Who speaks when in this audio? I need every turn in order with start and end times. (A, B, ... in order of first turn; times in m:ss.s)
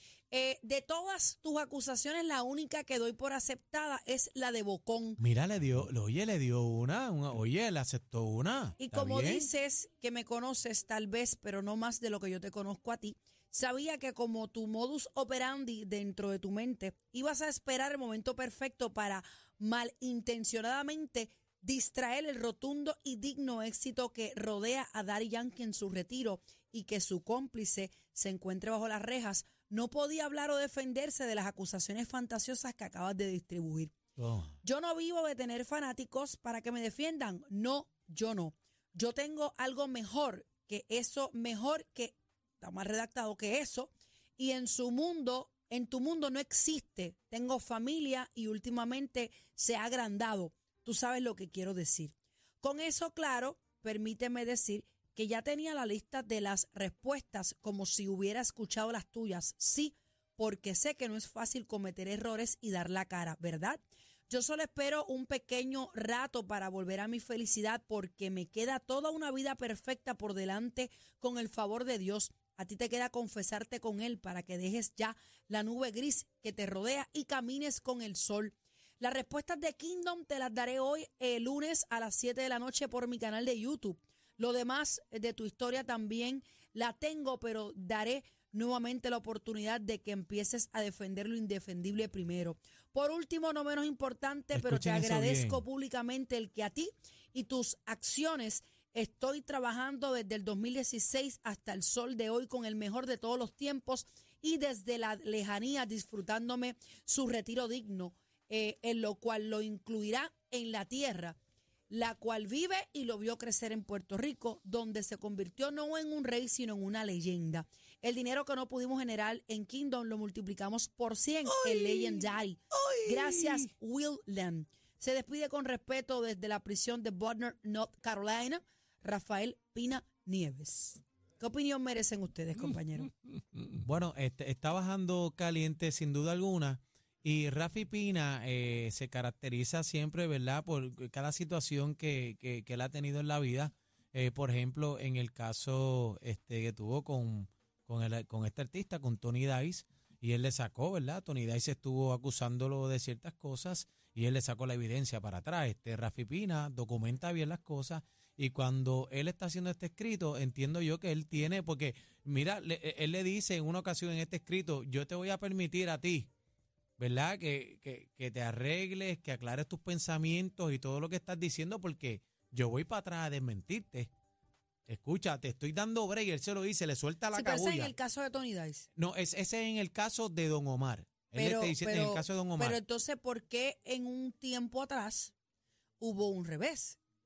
0:00.3-0:05.2 A
0:05.2-0:09.5 B
0:08.8-0:33.9 A
0:34.2-0:34.6 B
0:34.6-1:51.4 A
1:34.5-1:35.6 B
1:51.9-2:13.1 A
2:01.5-2:03.7 B
2:13.7-2:46.3 B
2:47.0-2:54.1 B
2:54.9-2:57.9 B
2:57.3-2:58.9 A
2:59.0-3:02.8 B
3:01.3-3:05.3 A
3:06.0-3:07.0 A